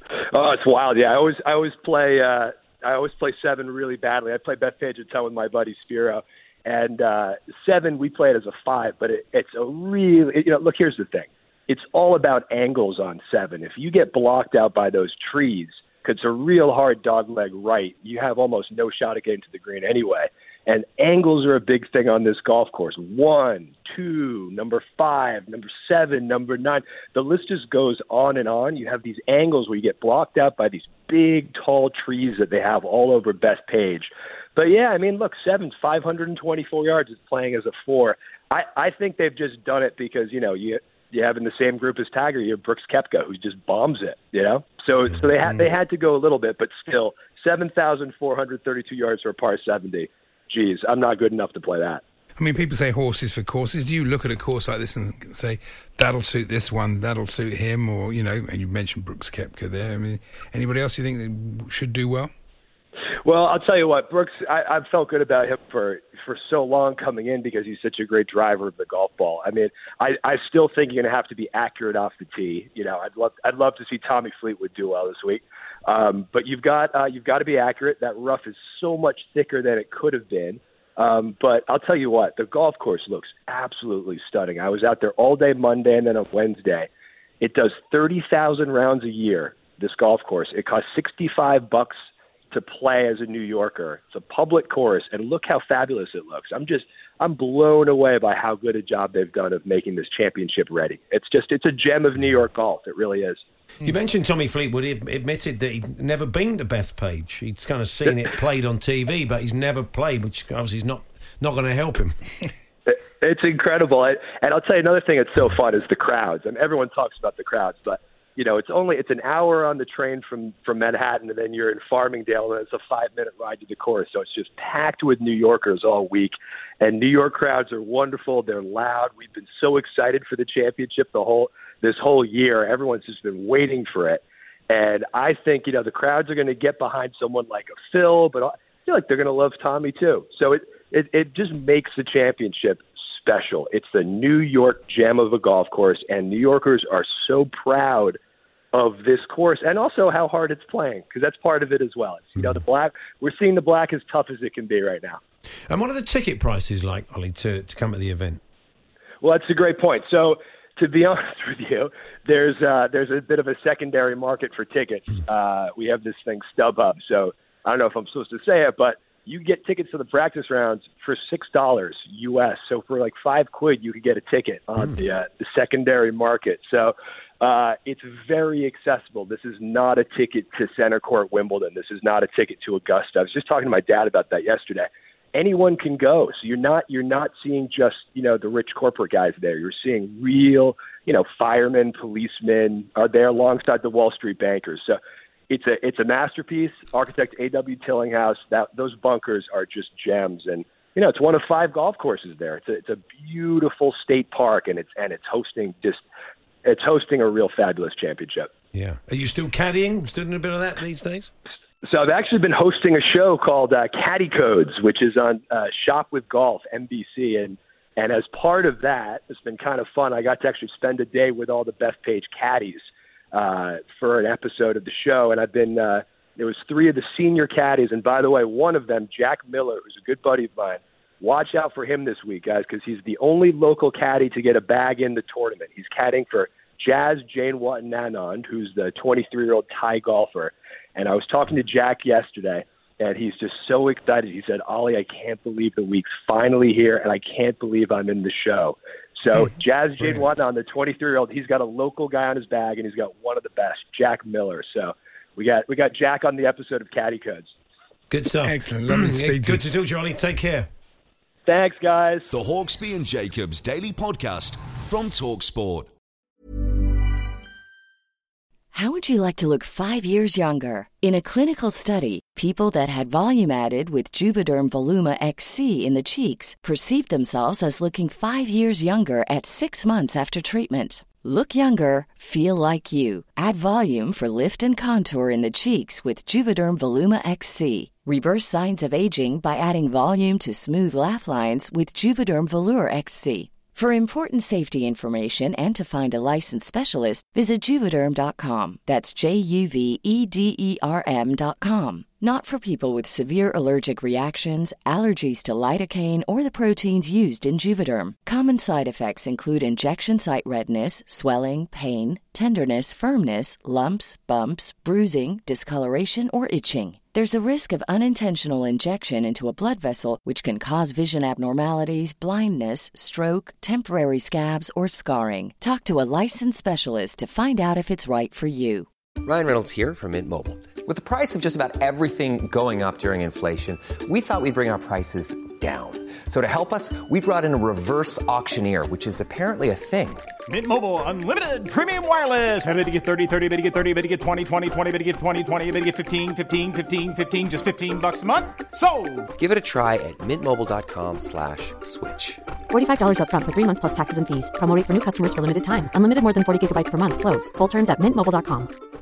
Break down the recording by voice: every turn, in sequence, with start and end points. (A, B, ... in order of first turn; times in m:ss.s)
0:00.3-0:52.0 A
0:45.4-0:45.7 B
0:52.4-1:02.3 B
1:03.2-1:26.9 A
1:27.4-1:32.0 A
1:32.5-1:43.4 A
1:43.8-1:52.2 C
1:52.9-2:28.2 A
2:28.7-2:35.2 A
2:35.7-2:38.4 C
2:39.2-3:15.0 A
3:15.5-3:26.0 A
3:26.6-3:28.5 A
3:28.7-3:31.3 C
3:31.8-4:17.5 A
4:18.1-4:20.7 C
4:18.4-4:19.6 B
4:21.5-4:22.3 A
4:22.3-4:25.9 D
4:28.7-5:28.9 E
5:29.2-5:40.3 F
5:40.5-5:49.3 G
5:49.4-5:52.4 F
5:52.7-5:58.7 H